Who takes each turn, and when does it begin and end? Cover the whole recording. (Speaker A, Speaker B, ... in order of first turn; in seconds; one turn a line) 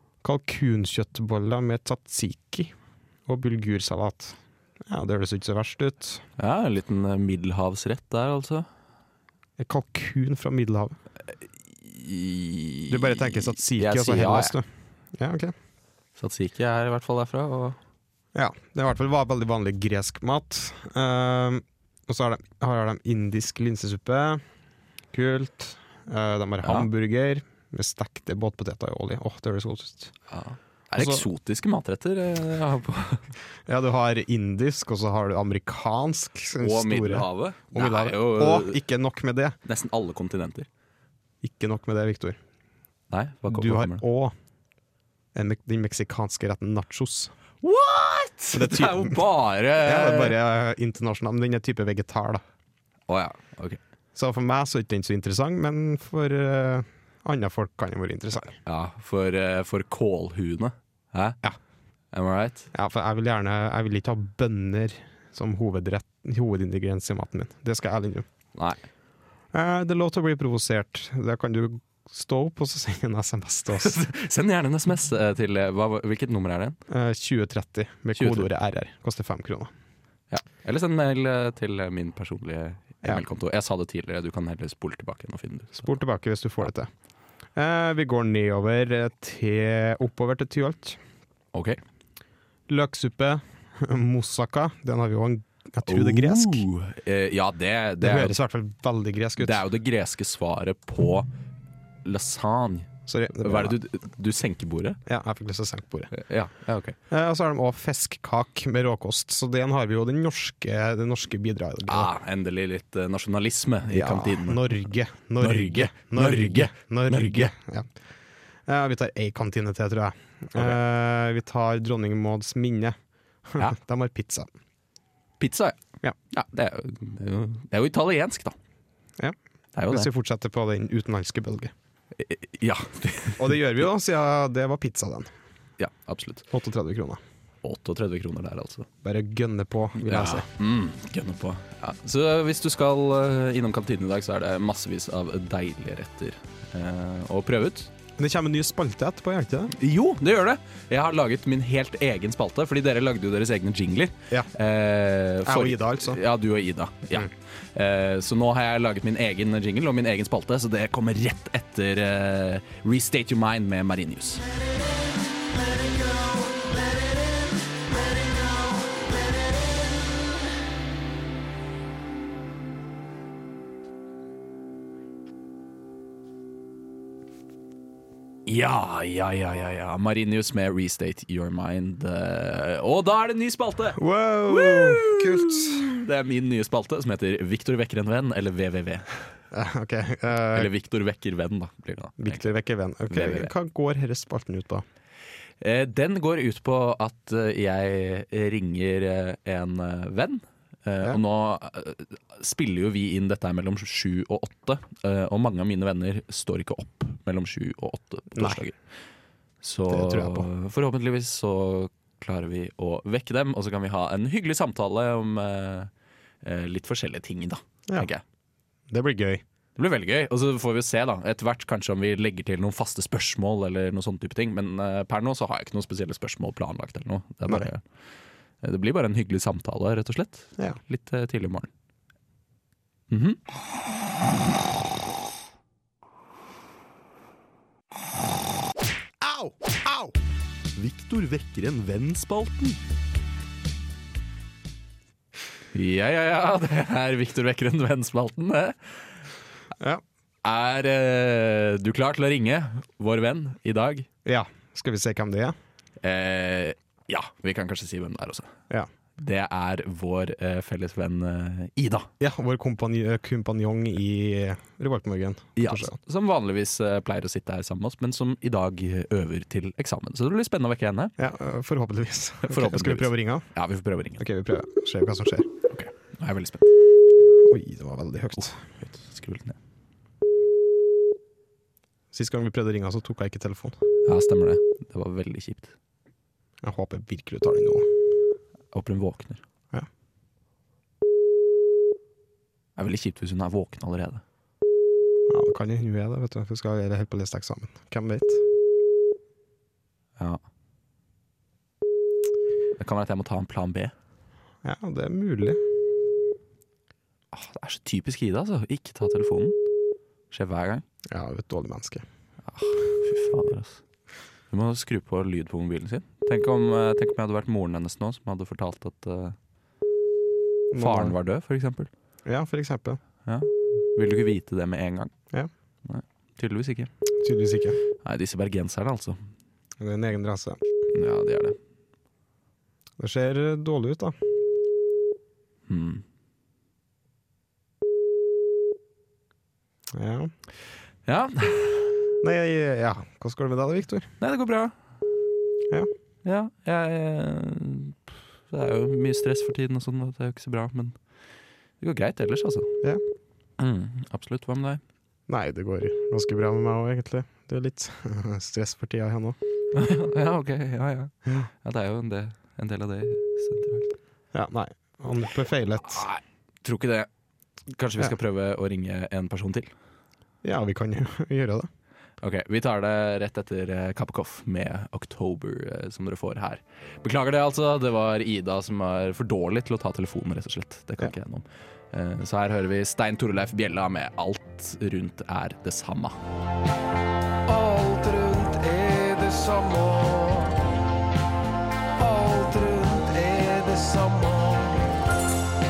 Speaker A: 0.2-2.7
Speaker A: 3.3-6.2
Speaker B: 6.4-8.7
Speaker A: 9.6-11.0
Speaker B: 11.8-14.6
Speaker A: 12.9-15.5
Speaker B: 16.2-17.8
Speaker A: 18.3-24.4
Speaker A: 25.1-30.1
Speaker B: 26.6-26.9
Speaker B: 30.3-33.3
Speaker A: 30.9-31.2
Speaker A: 33.7-39.6
Speaker B: 36.6-38.8
Speaker B: 39.6-40.7
Speaker A: 41.4-42.4
Speaker B: 43.1-44.0
Speaker A: 43.5-44.3
Speaker A: 45.3-47.3
Speaker B: 47.6-50.4
Speaker A: 48.5-49.2
Speaker A: 49.8-52.4
Speaker B: 53.1-53.8
Speaker A: 54.1-58.6
Speaker B: 58.5-61.4
Speaker B: 62.1-62.7
Speaker A: 62.7-68.3
Speaker B: 68.5-68.8
Speaker A: 69.5-74.0
Speaker B: 73.8-76.8
Speaker A: 76.9-79.7
Speaker B: 78.2-78.5
Speaker B: 80.3-85.9
Speaker A: 85.8-86.9
Speaker A: 87.6-91.0
Speaker B: 91.5-91.8
Speaker A: 92.7-96.7
Speaker B: 95.8-98.3
Speaker A: 98.0-99.6
Speaker B: 99.4-101.3
Speaker B: 102.0-102.9
Speaker A: 103.1-103.8
Speaker B: 103.4-105.0
Speaker A: 105.1-106.1
Speaker B: 106.1-107.0
Speaker A: 107.1-112.1
Speaker B: 111.9-114.8
Speaker A: 113.9-117.9
Speaker B: 115.4-117.5
Speaker A: 118.7-123.0
Speaker A: 123.5-124.5
Speaker B: 125.4-125.8
Speaker B: 126.3-128.6
Speaker B: 129.8-130.1
Speaker A: 129.9-131.7
Speaker B: 132.2-133.5
Speaker A: 133.4-135.3
Speaker B: 135.8-136.5
Speaker A: 136.5-137.2
Speaker B: 137.6-138.9
Speaker A: 139.0-140.5
Speaker B: 140.0-147.9
Speaker A: 148.2-149.7
Speaker B: 149.7-164.4
Speaker A: 155.4-156.2
Speaker B: 178.5-189.3
Speaker A: 184.0-185.9
Speaker A: 189.5-190.7
Speaker B: 190.5-192.4
Speaker A: 192.2-194.8
Speaker B: 193.1-193.5
Speaker B: 195.6-208.8
Speaker A: 208.3-208.7
Speaker B: 209.6-215.9
Speaker A: 209.9-210.5
Speaker B: 216.4-218.2
Speaker A: 218.9-219.4
Speaker B: 219.8-227.8
Speaker B: 228.6-231.7
Speaker B: 233.1-233.4
Speaker A: 239.2-240.2
Speaker B: 240.8-242.8
Speaker B: 245.7-249.0
Speaker B: 250.4-254.1
Speaker A: 254.2-255.6
Speaker B: 256.0-258.5
Speaker B: 259.2-262.1
Speaker A: 262.2-266.0
Speaker B: 265.6-271.1
Speaker A: 271.2-273.5
Speaker B: 272.4-274.2
Speaker A: 274.2-275.5
Speaker B: 275.7-276.7
Speaker A: 277.4-278.6
Speaker B: 278.8-279.6
Speaker A: 282.1-283.8
Speaker B: 284.1-285.7
Speaker A: 286.6-287.9
Speaker B: 288.7-289.4
Speaker B: 292.8-294.2
Speaker A: 295.3-298.4
Speaker B: 302.8-303.9
Speaker A: 304.6-305.6
Speaker B: 307.3-309.6
Speaker B: 310.3-310.8
Speaker A: 311.1-312.1
Speaker B: 312.5-313.8
Speaker B: 314.5-319.4
Speaker A: 320.7-321.2
Speaker B: 320.8-321.9
Speaker A: 322.3-323.0
Speaker B: 323.3-325.1
Speaker B: 325.9-326.9
Speaker A: 327.2-327.8
Speaker B: 328.0-329.2
Speaker A: 329.8-330.6
Speaker B: 330.9-331.6
Speaker A: 333.0-334.2
Speaker B: 335.7-336.0
Speaker A: 339.9-340.3
Speaker B: 341.1-342.0
Speaker A: 342.2-344.1
Speaker B: 344.2-344.8
Speaker B: 346.2-351.0
Speaker B: 351.8-352.7
Speaker B: 353.6-354.8
Speaker A: 355.3-359.4
Speaker B: 359.7-363.9
Speaker A: 364.3-366.1
Speaker B: 365.9-367.1
Speaker B: 367.7-369.7
Speaker A: 370.4-371.7
Speaker B: 372.2-386.2
Speaker C: 387.5-390.7
Speaker C: 392.0-394.9